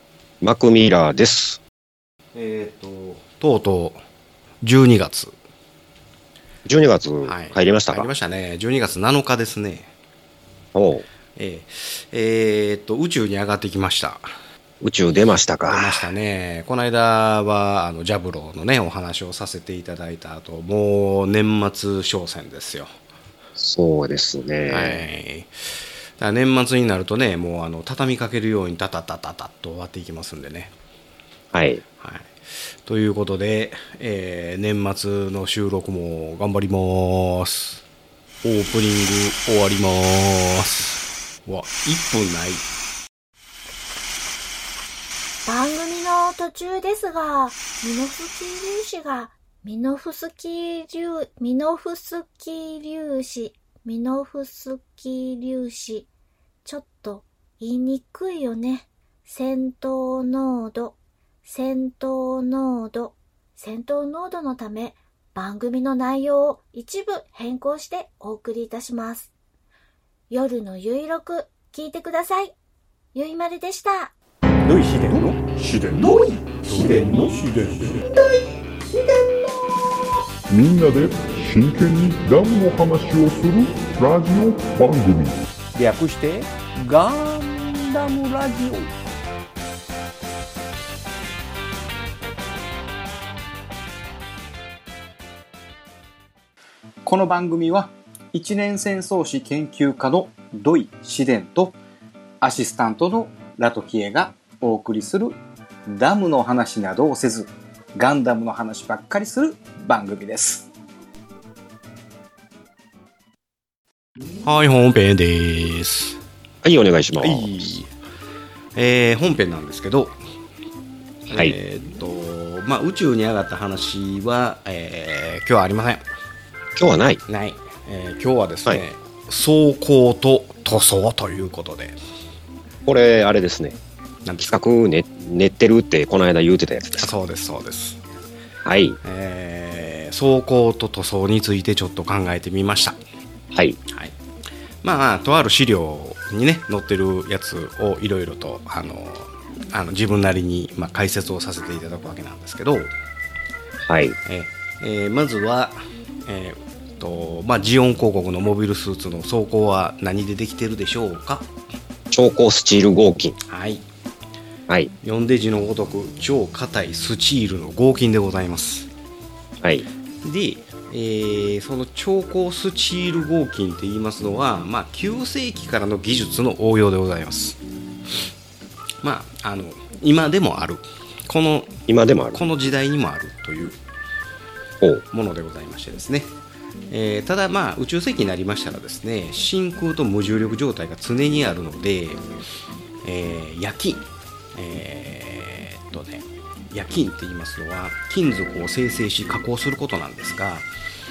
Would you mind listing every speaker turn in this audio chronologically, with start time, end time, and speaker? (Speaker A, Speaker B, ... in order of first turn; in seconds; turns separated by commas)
Speaker A: 0.4-1.6, Speaker B: 2.3-4.0, Speaker B: 4.6-5.3, Speaker A: 6.7-8.1, Speaker B: 7.2-9.9, Speaker A: 10.7-11.1, Speaker B: 11.3-14.3, Speaker A: 14.8-16.0, Speaker B: 15.7-22.9, Speaker A: 23.6-25.1, Speaker B: 24.7-25.6, Speaker B: 26.2-30.7, Speaker A: 31.5-31.8, Speaker B: 32.0-37.8, Speaker B: 38.4-42.7, Speaker C: 45.5-56.1, Speaker C: 56.6-69.3, Speaker C: 70.3-72.5, Speaker C: 73.1-74.1, Speaker B: 74.7-78.0, Speaker D: 76.8-77.3, Speaker E: 80.5-85.4, Speaker B: 85.8-88.8, Speaker D: 87.2-88.6, Speaker D: 97.0-101.7, Speaker D: 102.4-105.3, Speaker D: 105.9-110.7, Speaker B: 114.4-116.2, Speaker A: 116.6-117.7, Speaker B: 117.2-117.9, Speaker B: 118.8-120.2, Speaker B: 121.3-126.0, Speaker A: 126.8-127.2, Speaker B: 127.3-132.0, Speaker A: 132.8-133.8, Speaker B: 134.2-134.5, Speaker A: 134.4-137.1, Speaker B: 137.0-138.0, Speaker A: 138.6-139.0, Speaker B: 139.0-143.0, Speaker A: 143.5-143.8, Speaker B: 143.9-144.1, Speaker B: 144.8-152.9, Speaker A: 153.8-154.2, Speaker B: 154.2-161.5, Speaker A: 162.1-163.3, Speaker B: 163.5-163.8, Speaker B: 165.0-168.9, Speaker A: 169.6-169.9, Speaker B: 170.2-177.6, Speaker B: 179.0-181.8, Speaker A: 181.9-182.4, Speaker B: 182.3-183.8, Speaker B: 185.1-186.3, Speaker B: 186.9-192.2, Speaker B: 193.0-200.7